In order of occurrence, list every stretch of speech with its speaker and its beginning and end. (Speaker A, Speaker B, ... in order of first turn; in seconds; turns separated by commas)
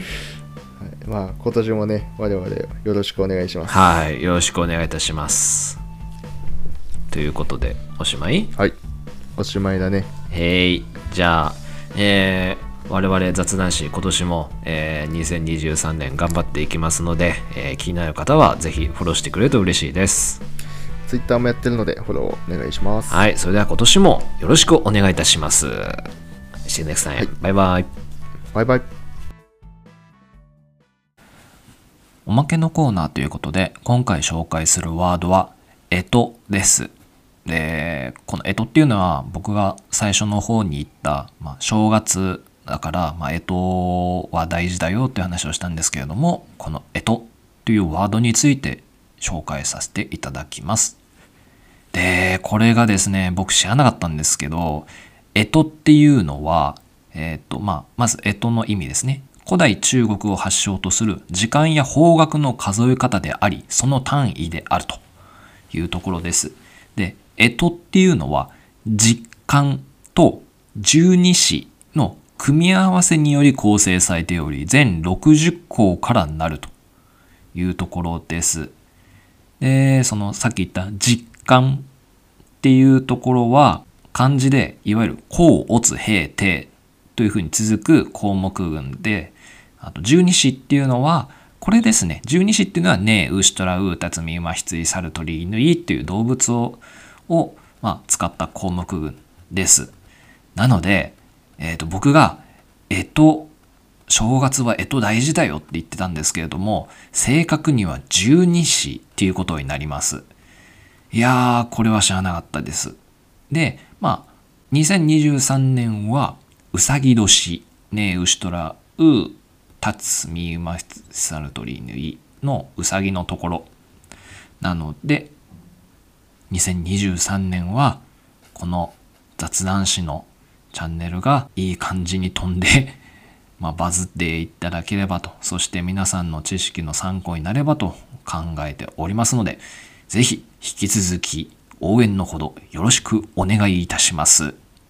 Speaker A: 0.8-3.9, Speaker B: 3.7-5.8, Speaker B: 7.1-8.6, Speaker A: 9.4-10.1, Speaker B: 10.3-20.4, Speaker A: 21.1-23.2, Speaker B: 23.1-26.1, Speaker B: 26.7-27.9, Speaker A: 28.5-28.9, Speaker B: 32.3-36.9, Speaker B: 37.5-51.0, Speaker B: 51.9-65.0, Speaker B: 65.7-76.7, Speaker B: 77.5-78.8, Speaker B: 79.6-81.9, Speaker B: 82.6-99.9, Speaker B: 100.6-103.5, Speaker B: 104.1-110.3, Speaker B: 111.1-113.0, Speaker B: 113.5-123.7, Speaker B: 124.6-125.3, Speaker B: 126.5-128.0, Speaker B: 128.6-133.0, Speaker B: 133.6-144.6